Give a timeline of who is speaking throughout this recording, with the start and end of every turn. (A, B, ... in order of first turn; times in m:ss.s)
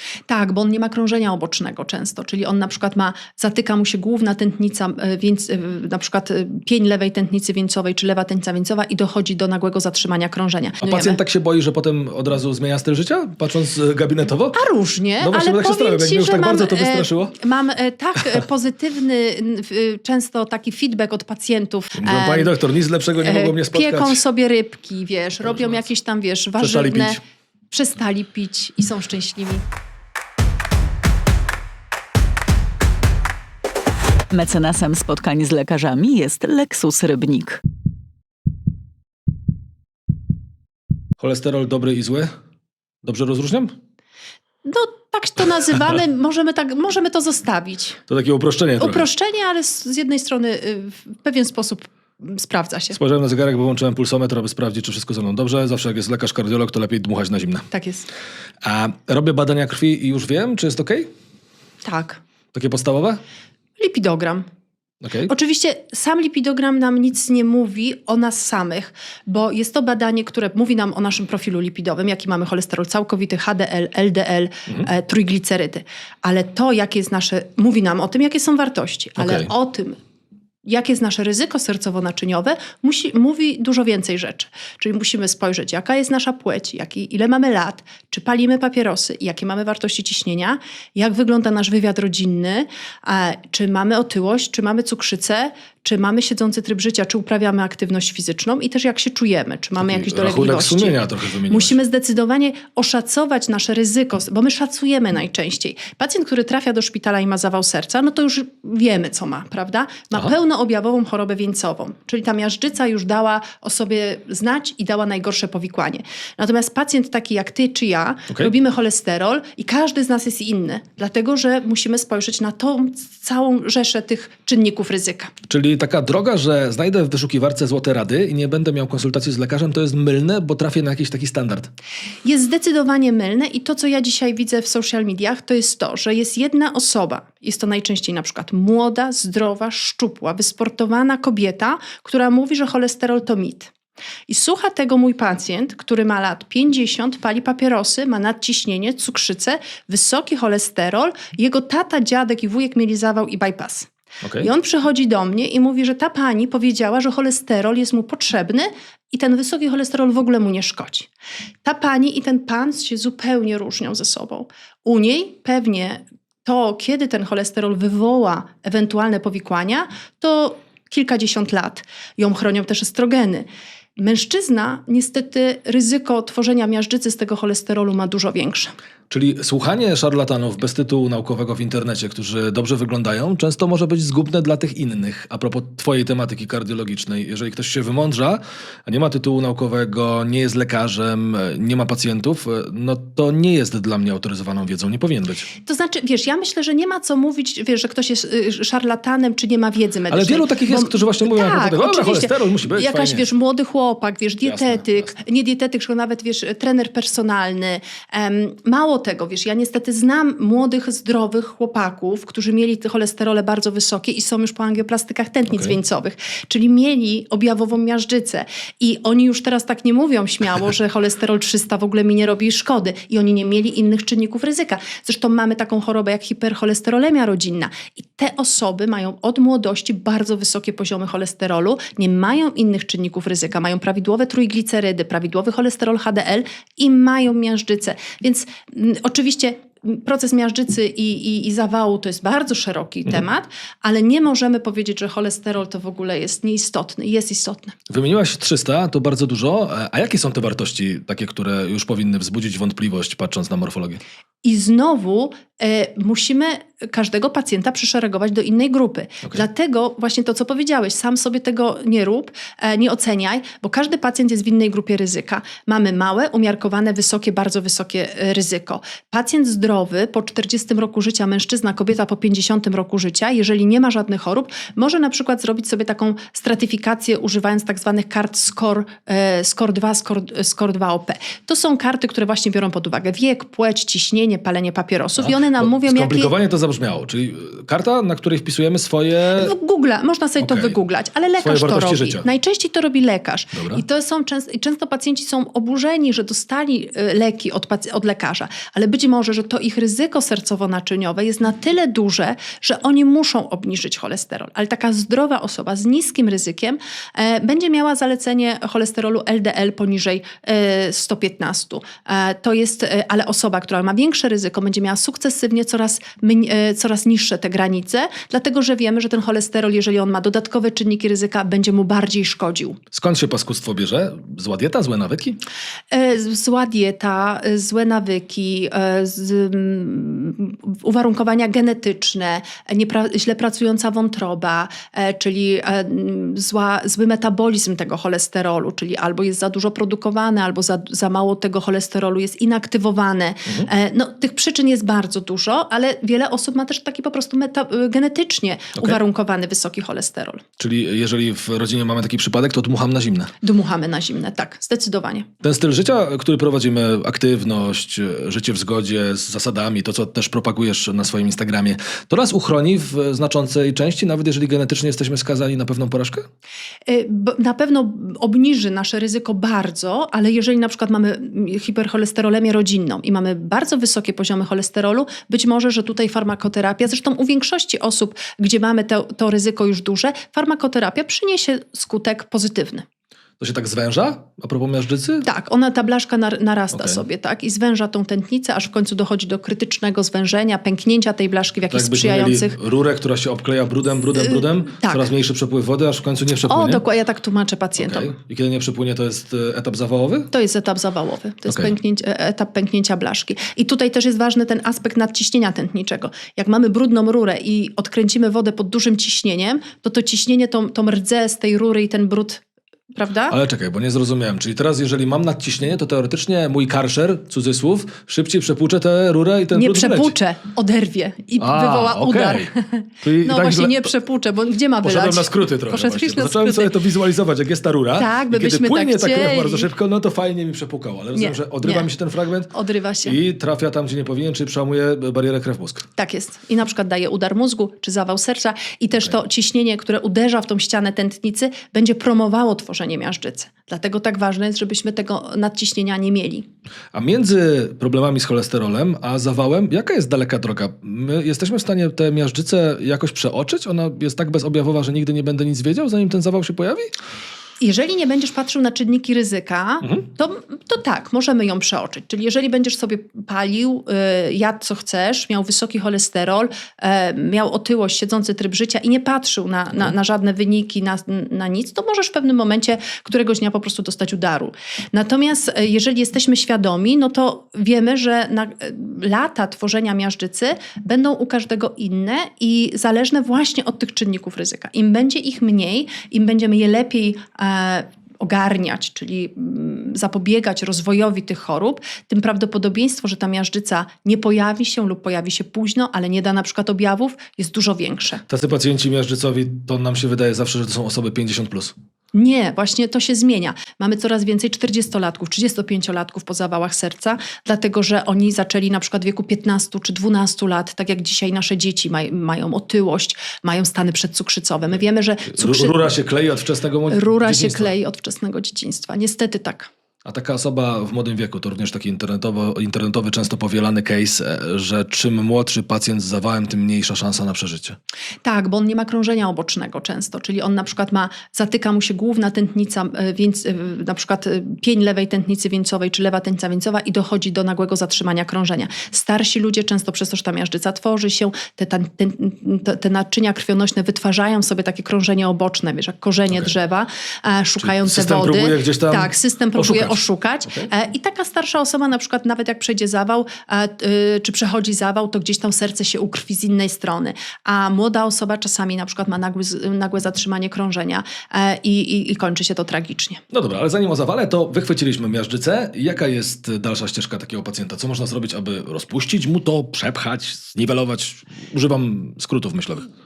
0:00.3-0:11.2 A
0:10.8-0:14.6 B
0:14.5-0:22.5 A
0:15.2-0:17.4 B
0:22.0-0:24.2 B
0:23.2-0:27.2 A
0:26.6-0:27.2 B
0:27.7-0:29.6 A
0:34.3-0:37.6 C
0:41.2-0:42.3 B
0:43.0-0:43.8 B
0:44.6-0:48.0 A
0:48.1-0:49.1 B
0:48.8-0:53.0 A
0:53.0-0:57.7 B
0:57.7-0:58.1 A
0:58.6-1:01.1 B
1:01.8-1:02.2 A
1:02.5-1:03.2 B
1:03.8-1:04.5 A
1:05.0-1:05.3 B
1:05.3-1:20.0 A
1:19.2-1:19.5 B
1:20.6-2:05.3 A
1:39.8-1:41.8 B
2:05.5-2:11.7 B
2:12.2-2:23.7 A
2:24.3-2:41.1 A
2:34.2-2:34.5 B
2:41.6-2:58.7 A
2:59.1-3:15.5 B
3:15.6-4:07.8 A
3:20.1-3:23.2 B
3:24.4-3:25.1 B
4:07.9-4:14.0 B
4:14.4-4:46.3 A
4:45.2-4:49.5 B
4:49.3-5:22.8 A
4:50.4-4:50.8 B
4:51.4-4:52.2 B
4:53.6-4:53.8 B
5:22.9-5:25.4 B
5:25.9-5:50.4 A
5:50.6-5:53.3 B
5:53.4-5:55.3 A
5:55.4-6:06.3 B
6:06.9-6:22.8 A
6:23.4-6:25.3 B
6:25.2-6:32.6 A
6:26.7-6:27.0 B
6:31.7-6:36.8 B
6:34.2-6:35.1 A
6:36.4-6:38.1 A
6:37.8-6:40.3 B
6:40.3-6:52.4 A
6:41.5-6:41.7 B
6:52.9-6:53.4 A
6:53.3-7:00.2 B
6:59.5-7:06.7 A
7:01.4-7:02.5 B
7:03.0-7:03.8 B
7:04.8-7:12.5 B
7:08.0-7:09.7 A
7:11.2-7:11.9 A
7:12.5-7:13.2 A
7:13.0-7:15.9 B
7:16.0-7:26.5 A
7:26.9-7:36.9 B
7:37.6-8:18.2 A
8:18.3-8:21.7 B
8:22.1-8:36.0 A
8:35.3-8:37.7 B
8:36.9-8:39.7 A
8:40.0-8:47.8 B
8:48.2-9:23.2 A
9:07.6-9:10.0 B
9:23.3-9:32.9 B